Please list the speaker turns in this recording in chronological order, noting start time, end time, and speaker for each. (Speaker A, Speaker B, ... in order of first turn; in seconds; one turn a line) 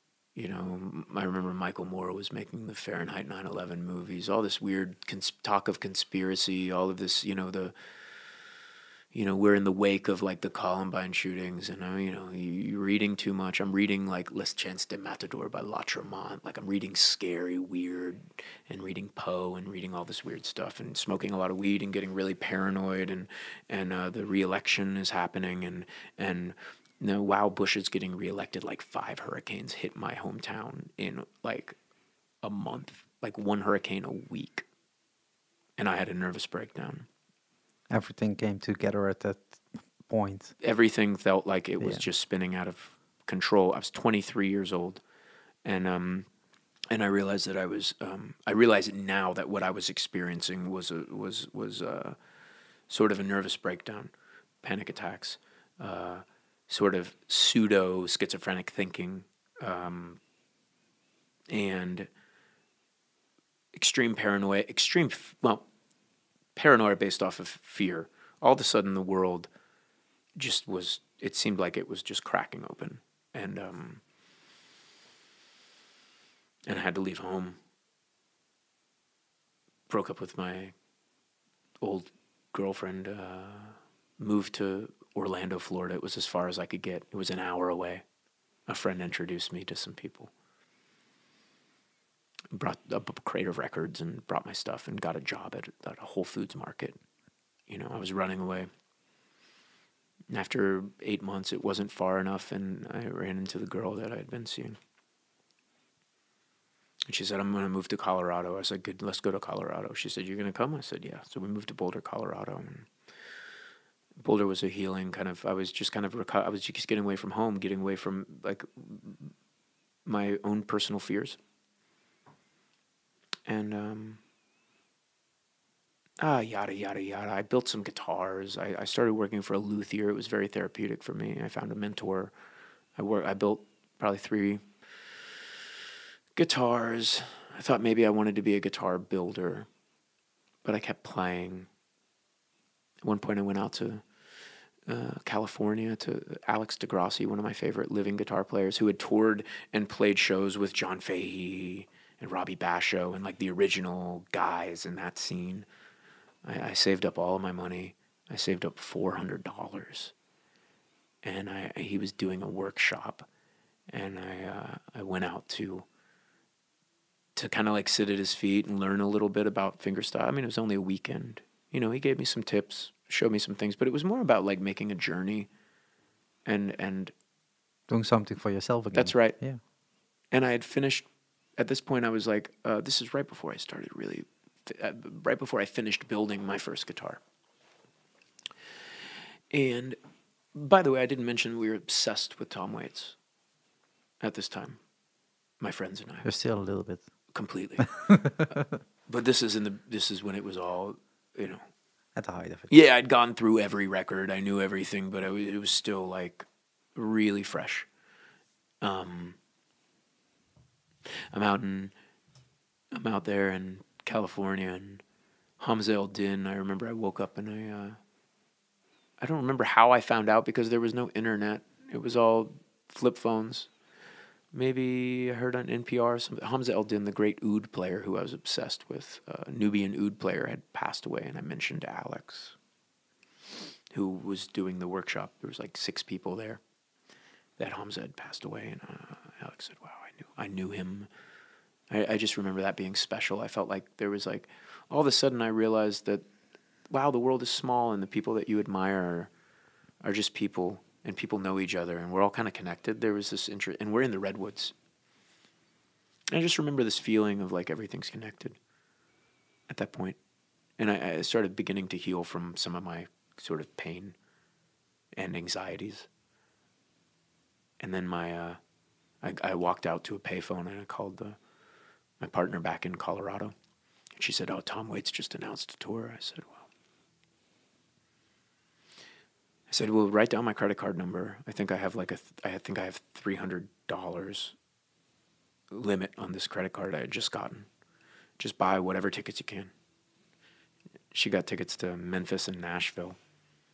Speaker A: 0.4-7.7
Speaker A: 9.1-31.8
Speaker A: 32.4-34.7
Speaker A: 35.8-37.1
Speaker B: 37.9-40.5
Speaker A: 40.6-45.0
Speaker B: 41.8-42.0
Speaker A: 45.6-46.3
Speaker A: 46.9-52.2
Speaker A: 52.9-54.1
Speaker A: 54.6-60.2
Speaker A: 61.5-62.1
Speaker A: 63.7-65.7
Speaker A: 66.6-69.5
Speaker A: 70.4-74.0
Speaker A: 76.7-77.6
Speaker A: 79.9-80.7
Speaker A: 81.8-88.0
Speaker A: 88.7-90.3
Speaker A: 92.5-97.0
Speaker A: 97.7-98.7
Speaker A: 100.3-104.8
Speaker A: 107.1-112.9
Speaker A: 114.2-119.3
Speaker A: 120.0-121.4
Speaker A: 123.5-124.2
Speaker A: 126.2-132.3
Speaker A: 133.0-134.6
Speaker A: 136.4-139.7
Speaker A: 140.7-141.7
Speaker A: 143.0-144.0
Speaker A: 144.9-155.7
Speaker A: 156.4-160.1
Speaker A: 161.2-163.3
Speaker A: 163.9-165.9
Speaker A: 167.4-175.5
Speaker A: 176.5-177.1
Speaker B: 177.9-179.6
Speaker A: 178.9-179.4
Speaker A: 180.3-181.1
Speaker A: 181.6-187.2
Speaker A: 189.5-190.0
Speaker A: 190.5-193.2
Speaker A: 194.2-194.8
Speaker A: 195.6-196.3
Speaker B: 196.2-197.0
Speaker A: 197.3-197.9
Speaker B: 197.8-198.6
Speaker A: 199.1-201.7
Speaker B: 202.2-202.7
Speaker A: 202.7-207.9
Speaker A: 208.8-209.4
Speaker A: 211.3-211.9
Speaker A: 212.9-215.0
Speaker A: 215.6-218.0
Speaker A: 219.2-223.7
Speaker A: 224.5-232.6
Speaker A: 233.9-236.6
Speaker A: 237.6-241.1
Speaker A: 241.9-246.2
Speaker A: 246.9-249.3
Speaker A: 250.0-254.7
Speaker A: 256.3-258.6
Speaker A: 259.7-260.2
Speaker A: 260.8-264.2
Speaker A: 265.2-266.1
Speaker A: 267.8-268.6
Speaker A: 269.2-271.4
Speaker A: 272.2-273.5
Speaker A: 274.2-276.7
Speaker A: 279.7-284.6
Speaker A: 285.7-287.7
Speaker A: 288.4-289.7
Speaker A: 291.1-293.2